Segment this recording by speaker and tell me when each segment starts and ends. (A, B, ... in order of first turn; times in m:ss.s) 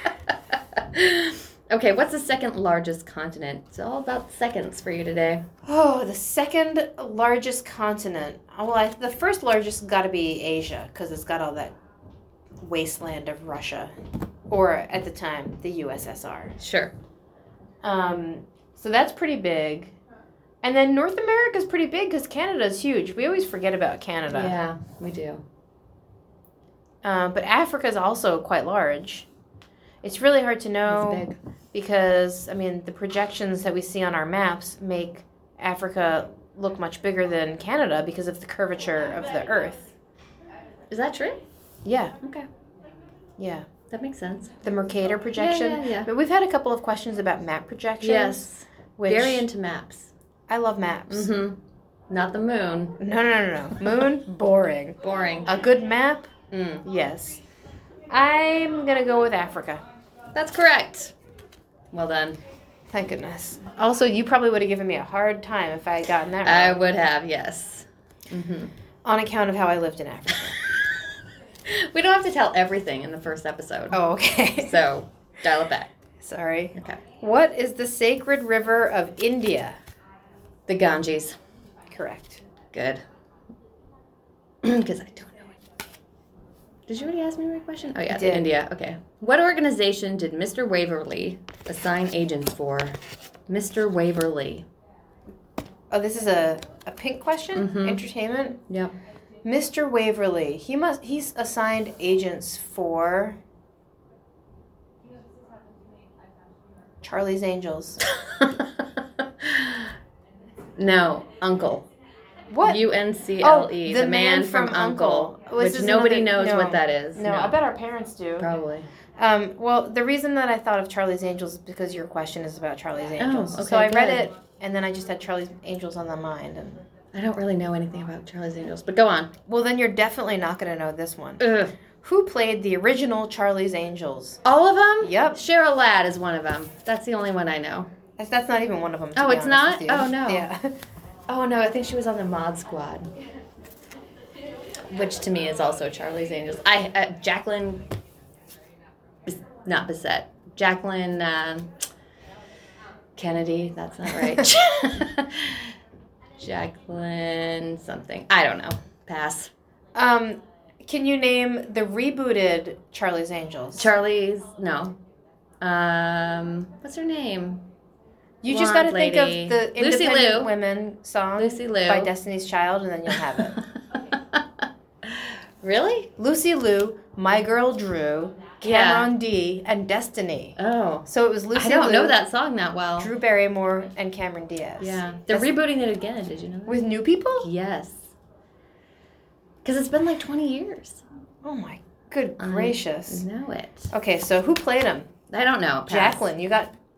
0:00.5-0:05.4 A
0:05.6-0:11.7 B
0:12.6-0:13.9 B
0:14.5-0:16.5 B
0:16.6-0:16.9 A
0:17.8-0:20.0 B
0:20.6-0:24.5 B
0:24.3-0:25.4 A
0:27.0-0:29.3 B
0:30.0-0:39.9 B
0:30.9-0:31.4 A
0:40.9-0:41.4 A
0:41.8-0:42.2 B
0:42.2-0:42.5 A
0:43.4-0:43.7 B
0:43.9-0:44.6 A
0:44.6-0:49.4 B
0:45.4-0:46.1 A
0:48.0-0:50.1 A
0:50.5-0:51.3 B
0:51.1-0:53.0 A
0:53.0-0:56.3 B
0:55.0-0:55.5 A
0:56.5-0:56.8 A
0:56.8-0:57.4 B
0:58.1-0:59.8 B
1:00.3-1:01.1 A
1:01.9-1:02.4 A
1:02.9-1:06.8 B
1:06.4-1:08.7 A
1:09.0-1:10.6 B
1:11.6-1:14.0 A
1:13.9-1:14.8 B
1:14.6-1:15.9 A
1:16.2-1:19.8 B
1:16.7-1:17.0 A
1:20.7-1:21.4 A
1:21.9-1:22.4 B
1:22.7-1:23.0 A
1:24.6-1:25.6 A
1:26.9-1:34.7 A
1:28.1-1:28.5 B
1:35.9-1:38.6 B
1:37.5-1:38.0 A
1:38.7-1:38.9 A
1:39.4-1:43.4 B
1:47.0-1:48.0 B
1:48.0-1:49.9 A
1:50.8-1:51.8 A
1:52.5-1:52.8 B
1:52.6-1:57.6 A
1:53.4-1:58.5 B
1:58.4-1:58.8 A
1:59.2-2:06.8 B
2:03.2-2:04.2 A
2:07.1-2:09.3 A
2:09.4-2:11.5 B
2:11.4-2:11.7 A
2:12.0-2:14.4 B
2:14.4-2:17.9 A
2:15.0-2:15.4 B
2:18.2-2:20.7 B
2:19.1-2:20.5 A
2:21.3-2:23.1 A
2:24.9-2:27.9 A
2:29.3-2:31.8 A
2:33.2-2:35.7 A
2:36.4-2:39.5 A
2:39.9-2:43.9 B
2:43.8-2:45.0 A
2:45.6-2:47.6 A
2:48.4-2:53.6 B
2:48.5-2:50.5 A
2:51.4-2:52.1 A
2:53.6-2:56.1 A
2:56.2-3:02.2 B
2:58.6-2:59.1 A
3:00.6-3:03.1 A
3:03.0-3:05.5 B
3:04.8-3:06.9 A
3:06.7-3:07.5 B
3:07.4-3:08.1 A
3:09.6-3:11.0 A
3:11.4-3:13.2 B
3:12.4-3:13.9 A
3:13.9-3:15.1 B
3:15.3-3:16.3 A
3:15.9-3:16.7 B